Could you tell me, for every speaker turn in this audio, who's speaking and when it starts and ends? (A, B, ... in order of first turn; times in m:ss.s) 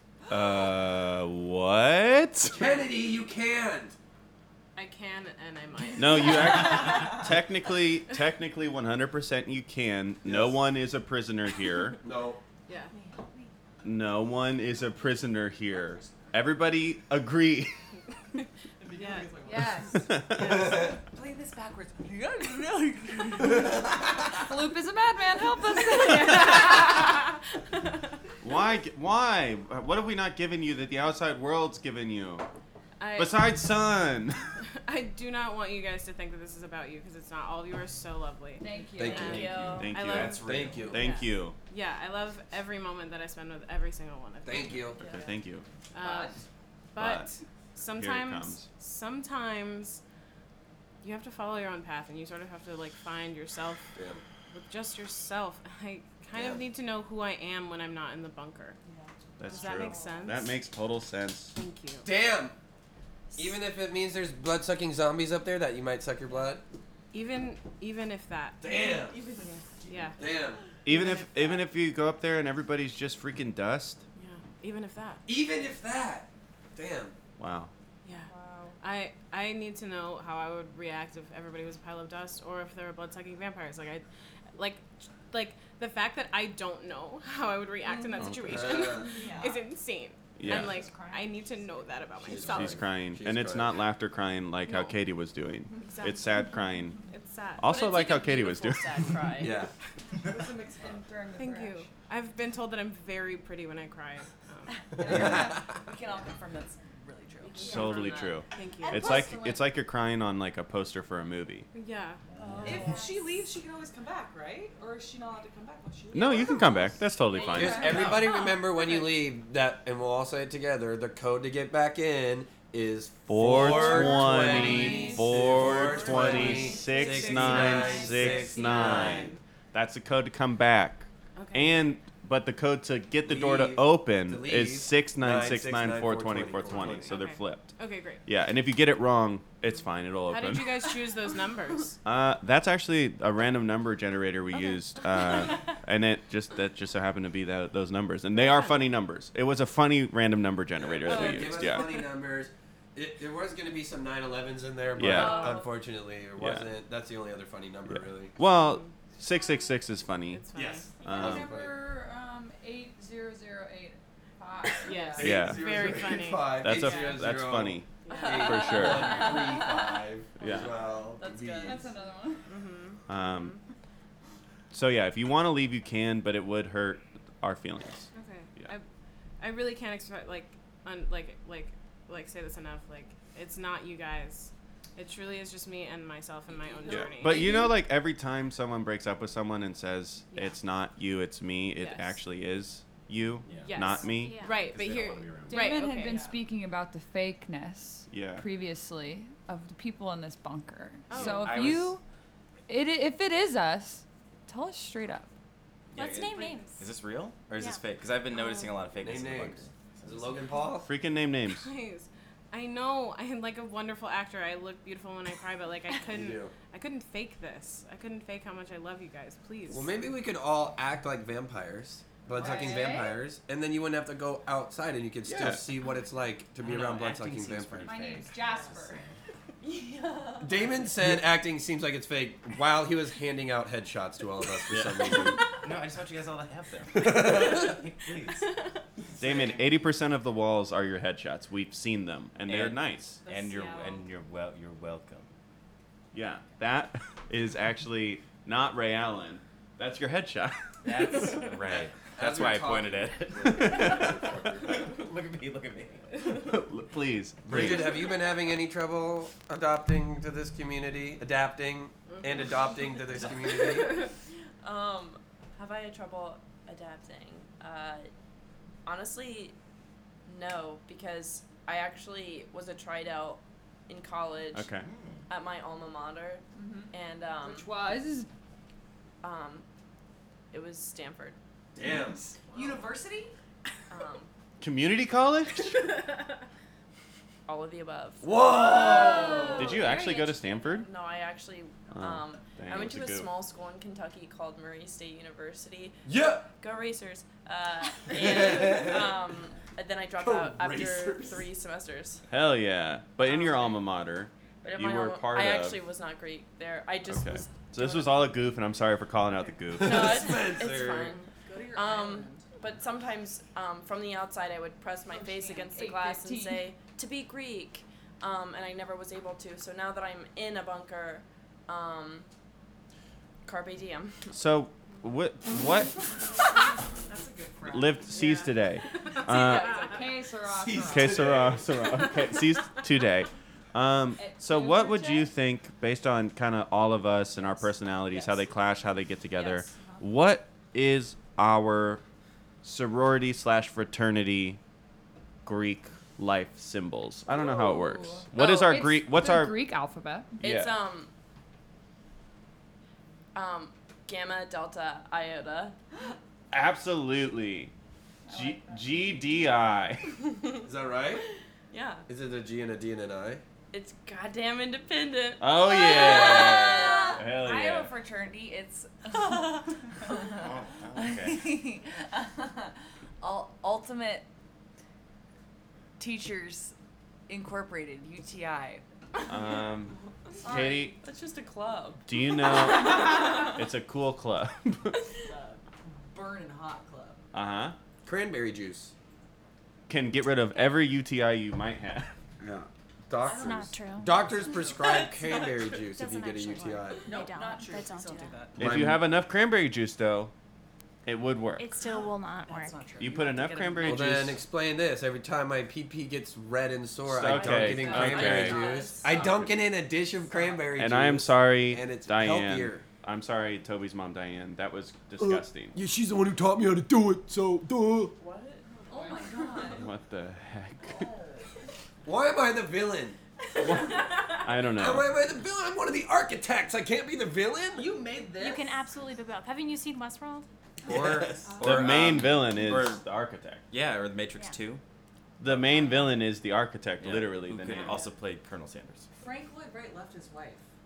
0:00.3-0:02.6 A
0:02.5-0:04.0 B
0:04.8-0:07.1 C
0:06.0-0:12.0 A
0:10.2-0:10.6 B
0:12.0-0:12.4 B
0:12.7-0:12.9 C
0:12.9-0:13.5 D
0:13.8-0:17.8 A
0:18.8-0:23.8 D
0:18.9-0:19.7 C
0:20.0-0:20.5 A
0:20.4-0:21.0 B
0:24.4-0:26.9 E
0:26.1-0:27.2 C
0:26.2-0:26.8 D
0:28.4-0:32.5 A
0:33.0-0:33.5 C
0:33.2-0:34.5 A
0:34.8-0:44.9 C
0:38.6-0:39.4 E
0:39.0-0:41.1 B
0:39.0-0:39.9 F
0:39.8-0:41.6 A
0:40.1-0:41.0 G
0:44.4-0:45.0 B
0:45.0-0:45.3 F
0:45.0-0:45.6 A
0:45.9-0:46.4 C
0:46.0-0:46.4 D
0:46.9-0:50.0 C
0:47.0-0:47.3 A
0:47.9-0:48.7 A
0:51.0-0:53.9 C
0:54.0-0:54.2 B
0:54.5-0:58.8 C
0:56.3-0:56.6 B
0:58.9-1:00.4 D
0:59.4-1:01.6 A
0:59.4-1:00.6 C
1:01.5-1:02.1 C
1:02.0-1:02.6 B
1:03.4-1:06.6 B
1:07.1-1:08.6 C
1:08.6-1:09.2 B
1:08.6-1:09.9 D
1:09.9-1:10.2 C
1:10.2-1:10.6 B
1:10.8-1:14.0 A
1:10.9-1:11.6 C
1:14.2-1:15.2 C
1:15.3-1:17.1 B
1:17.4-1:17.7 A
1:18.0-1:24.0 C
1:18.3-1:18.8 F
1:24.6-1:32.8 C
1:28.2-1:28.9 A
1:28.5-1:29.1 B
1:29.0-1:29.7 D
1:30.4-1:30.9 A
1:30.5-1:31.8 D
1:32.2-1:33.8 B
1:32.4-1:37.0 A
1:34.7-1:35.0 C
1:35.9-1:36.2 C
1:37.1-1:37.7 C
1:37.6-1:39.1 A
1:37.6-1:39.6 F
1:39.4-1:39.7 B
1:40.2-1:41.9 E
1:40.3-1:41.2 D
1:41.4-1:44.8 C
1:45.0-1:48.0 D
1:45.0-1:45.5 B
1:45.0-1:45.6 E
1:47.4-1:48.4 F
1:47.6-1:51.7 A
1:48.5-1:49.3 C
1:48.8-1:49.6 D
1:51.7-1:52.8 C
1:52.4-1:57.0 D
1:52.6-1:53.3 F
1:56.1-1:58.1 A
1:57.4-1:57.8 F
1:57.5-2:09.3 B
1:57.6-1:58.0 E
1:57.9-1:58.9 D
2:03.3-2:17.7 A
2:03.8-2:05.2 E
2:03.8-2:05.1 D
2:05.6-2:09.4 C
2:06.3-2:07.1 E
2:11.4-2:11.9 C
2:13.2-2:17.1 B
2:16.8-2:18.2 C
2:18.2-2:20.8 A
2:20.3-2:22.0 C
2:22.0-2:32.0 A
2:28.4-2:28.8 C
2:30.8-2:38.3 B
2:31.2-2:31.4 C
2:35.0-2:35.5 A
2:35.0-2:35.8 F
2:36.4-2:36.7 A
2:37.9-2:40.4 A
2:38.6-2:38.9 C
2:40.3-2:40.9 C
2:40.5-2:41.8 B
2:41.0-2:41.5 A
2:41.0-2:45.3 E
2:44.8-2:47.2 C
2:45.2-2:51.9 B
2:45.2-2:45.9 A
2:46.6-2:49.3 A
2:48.0-2:49.4 C
2:48.1-2:51.9 F
2:50.4-2:50.7 A
2:51.6-2:52.5 E
2:52.5-2:53.6 C
2:53.1-2:53.6 A
2:54.7-2:58.7 A
2:58.1-2:58.8 C
2:59.4-3:07.6 C
3:06.9-3:14.4 A
3:11.8-3:12.2 C
3:13.4-3:14.0 G
3:13.6-3:16.3 C
3:14.1-3:14.7 H
3:14.6-3:15.8 G
3:15.5-3:22.0 E
3:15.8-3:16.4 D
3:18.1-3:18.5 A
3:21.1-3:21.6 C
3:21.1-3:22.0 G
3:22.7-3:25.3 E
3:25.9-3:30.4 G
3:26.0-3:26.9 H
3:29.0-3:30.9 B
3:30.8-3:31.7 A
3:31.5-3:40.0 C
3:36.1-3:36.5 B
3:39.7-3:48.0 B
3:42.4-3:43.2 E
3:42.4-3:42.9 D
3:45.3-3:45.6 A
3:46.6-3:49.2 G
3:47.8-3:49.0 E
3:49.6-3:50.5 F
3:50.4-3:55.5 B
3:54.7-3:55.0 A
3:55.5-3:58.5 G
3:56.9-3:57.8 B
3:59.2-4:03.2 A
3:59.2-3:59.6 G
4:02.4-4:05.3 G
4:03.2-4:04.1 D
4:06.1-4:10.6 A
4:10.8-4:16.5 G
4:11.7-4:14.9 B
4:13.4-4:14.2 A
4:16.3-4:18.0 A
4:17.5-4:24.0 B
4:22.1-4:24.1 C
4:24.6-4:28.1 F
4:28.9-4:29.6 F
4:30.3-4:34.7 F
4:34.5-4:34.9 A
4:34.8-4:35.2 G
4:35.3-4:37.7 F
4:36.6-4:38.3 E
4:39.2-4:39.6 F
4:40.5-4:41.4 F
4:41.8-4:42.2 B
4:41.8-4:43.3 D
4:42.4-4:42.9 F
4:43.9-4:44.3 F
4:44.6-4:45.9 A
4:47.5-4:56.0 F
4:48.2-4:49.8 B
4:49.6-4:50.9 A
4:51.9-4:53.3 A
4:56.0-4:56.5 B
4:56.6-5:02.2 F
4:58.1-4:59.1 B
5:00.2-5:01.5 B
5:02.3-5:05.8 A
5:03.2-5:03.8 F
5:04.6-5:08.3 F
5:07.1-5:10.4 A
5:09.8-5:22.3 F
5:09.8-5:11.2 B
5:11.4-5:12.5 D
5:15.1-5:16.7 E
5:23.4-5:24.3 F
5:24.3-5:26.1 A
5:27.0-5:28.2 D
5:27.6-5:29.8 A
5:28.1-5:28.5 C
5:29.2-5:30.0 C
5:29.7-5:31.2 E
5:30.5-5:31.8 B
5:30.9-5:42.0 A
5:34.2-5:35.3 E
5:38.1-5:38.4 D
5:39.4-5:40.0 D
5:42.6-5:44.6 A
5:45.4-5:49.7 A
5:47.3-5:50.3 E
5:50.4-5:50.8 A
5:50.4-5:51.1 F
5:53.3-5:55.8 F
5:56.5-5:57.7 A
5:58.3-5:59.2 E
5:58.3-6:00.2 A
6:00.3-6:00.6 F
6:00.6-6:01.2 B
6:01.7-6:02.1 F
6:02.1-6:03.4 B
6:03.7-6:07.3 F
6:05.4-6:07.9 A
6:05.9-6:14.3 D
6:10.4-6:11.4 G
6:16.0-6:16.8 D
6:17.3-6:18.8 D
6:19.3-6:20.0 A
6:20.4-6:21.0 D
6:20.5-6:21.0 A
6:20.6-6:22.0 F
6:22.1-6:25.0 A
6:22.7-6:23.5 F
6:25.2-6:27.2 D
6:27.3-6:27.8 A
6:28.0-6:28.9 B
6:29.9-6:32.1 A
6:32.4-6:37.1 B
6:33.2-6:33.7 D
6:33.3-6:34.3 H
6:34.6-6:35.0 D
6:35.8-6:38.5 H
6:37.0-6:38.8 D
6:38.6-6:39.0 B
6:38.6-6:40.3 A
6:41.1-6:41.7 A
6:41.6-6:42.9 H
6:41.8-6:44.1 D
6:43.0-6:44.4 A
6:43.8-6:52.8 B
6:47.1-6:49.5 A
6:47.7-6:49.4 D
6:47.9-6:49.0 F
6:50.2-6:50.7 D
6:50.8-6:55.8 A
6:55.2-6:58.1 B
6:58.2-6:58.9 F
6:58.9-6:59.9 D
6:58.9-6:59.9 E
6:59.7-7:01.1 A
7:00.8-7:01.5 D
7:02.0-7:08.0 B
7:03.7-7:05.1 A
7:07.7-7:08.8 D
7:08.4-7:10.5 H
7:10.9-7:13.0 G
7:10.9-7:11.4 B
7:11.4-7:11.9 D
7:11.6-7:13.6 A
7:13.7-7:14.8 G
7:15.4-7:18.0 A
7:15.4-7:15.8 G
7:17.0-7:19.1 G
7:19.2-7:20.6 D